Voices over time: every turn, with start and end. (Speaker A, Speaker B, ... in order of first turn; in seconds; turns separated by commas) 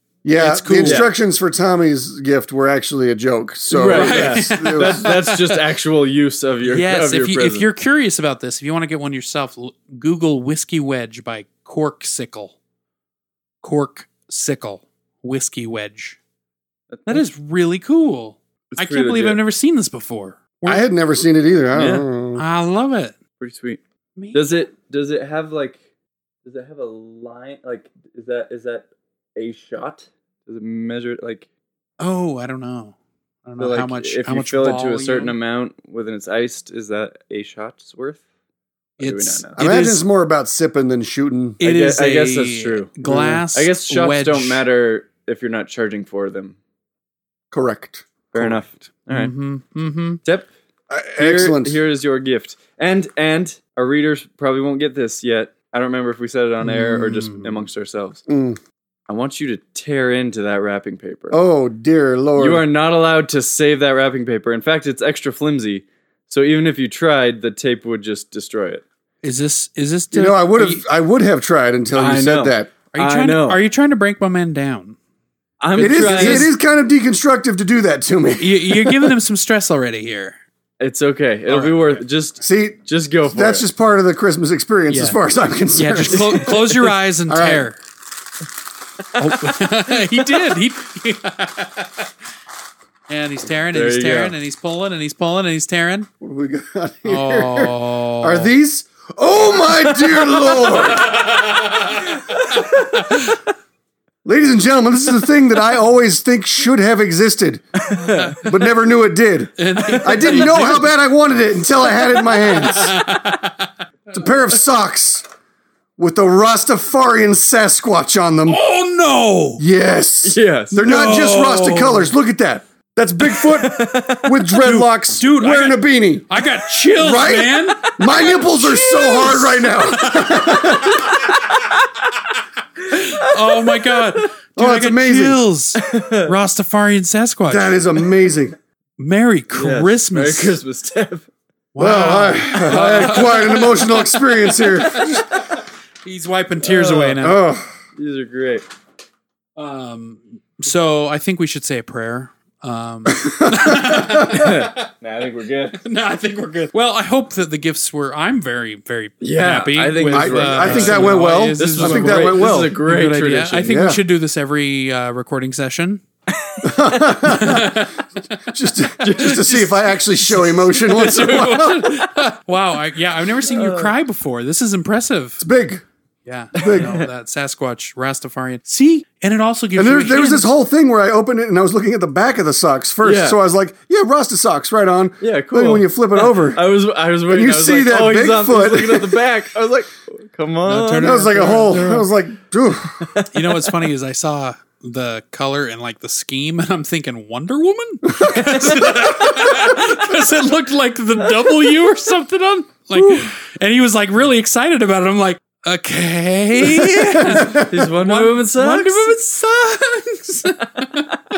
Speaker A: 0.2-5.1, Speaker B: 0.3-1.1, Speaker C: 0.8-1.1, Speaker C: 3.7-7.6, Speaker B: 3.8-5.6, Speaker B: 6.6-12.5, Speaker B: 13.6-16.2, Speaker C: 16.9-17.2, Speaker B: 17.1-20.9, Speaker C: 18.7-19.4, Speaker A: 20.7-22.4, Speaker C: 21.7-22.0, Speaker B: 22.3-23.1, Speaker C: 23.4-23.8, Speaker B: 24.2-24.6, Speaker C: 24.3-25.8, Speaker C: 26.4-31.4, Speaker B: 32.0-35.4, Speaker C: 33.6-38.2, Speaker B: 39.0-40.0, Speaker C: 39.0-39.6, Speaker A: 39.6-41.6, Speaker B: 41.6-44.6, Speaker C: 41.6-46.5, Speaker A: 43.1-43.4, Speaker A: 47.5-48.6, Speaker C: 48.3-49.3, Speaker B: 49.1-50.2, Speaker A: 50.9-51.8, Speaker C: 51.2-58.2, Speaker B: 56.6-57.6, Speaker A: 58.3-58.6, Speaker C: 59.1-61.4, Speaker A: 61.3-62.6, Speaker C: 62.4-68.8, Speaker B: 69.2-70.8, Speaker A: 70.1-72.7, Speaker C: 71.9-73.6, Speaker B: 72.9-75.0, Speaker C: 75.6-76.5, Speaker B: 75.8-76.5, Speaker A: 75.8-79.1, Speaker B: 78.4-80.4, Speaker C: 80.8-83.7, Speaker B: 81.5-82.0, Speaker A: 82.4-87.7, Speaker B: 84.9-85.2, Speaker B: 85.7-87.8, Speaker B: 89.2-92.0, Speaker B: 93.1-96.1, Speaker C: 93.7-94.3, Speaker A: 96.2-101.2, Speaker B: 97.0-98.5, Speaker B: 100.9-103.3, Speaker C: 102.3-103.2, Speaker A: 104.2-107.8, Speaker C: 107.8-108.4, Speaker B: 108.0-108.4, Speaker A: 108.4-112.9, Speaker B: 109.6-110.9, Speaker B: 112.2-113.7, Speaker A: 114.1-115.2, Speaker A: 116.0-118.6, Speaker B: 118.5-119.6, Speaker A: 119.6-126.4, Speaker C: 120.2-120.8, Speaker B: 120.8-122.1, Speaker C: 123.3-124.6, Speaker B: 124.6-131.5, Speaker A: 127.0-131.2, Speaker C: 130.9-131.8, Speaker B: 132.9-137.8, Speaker C: 132.9-134.2, Speaker A: 134.6-135.4, Speaker C: 135.8-136.3, Speaker A: 137.5-138.6, Speaker B: 139.0-140.6, Speaker C: 139.5-141.3, Speaker B: 141.7-144.0, Speaker A: 141.8-145.2, Speaker C: 143.5-145.2, Speaker B: 144.9-145.2, Speaker B: 146.0-147.4, Speaker C: 146.6-147.2, Speaker A: 147.2-147.7, Speaker C: 147.9-148.6, Speaker B: 149.6-154.9, Speaker A: 153.1-154.5, Speaker C: 154.2-155.8, Speaker B: 155.8-166.0, Speaker C: 159.2-163.7, Speaker A: 160.1-162.8, Speaker A: 163.6-164.0, Speaker C: 166.3-167.2, Speaker A: 166.6-167.9, Speaker B: 167.2-168.4, Speaker A: 168.4-171.9, Speaker C: 169.0-169.4, Speaker B: 169.1-175.4, Speaker C: 173.4-173.9, Speaker A: 175.4-175.8, Speaker B: 176.2-180.5, Speaker A: 176.6-176.9, Speaker C: 176.6-177.1, Speaker A: 179.8-186.6, Speaker C: 183.0-183.4, Speaker C: 185.2-191.8, Speaker A: 187.3-189.3, Speaker B: 190.7-192.1, Speaker A: 191.0-193.1, Speaker C: 193.0-193.7, Speaker B: 193.3-211.1, Speaker A: 198.1-198.5, Speaker C: 198.4-199.9, Speaker C: 201.4-201.7, Speaker A: 202.9-203.2, Speaker A: 206.6-207.9, Speaker C: 207.3-209.2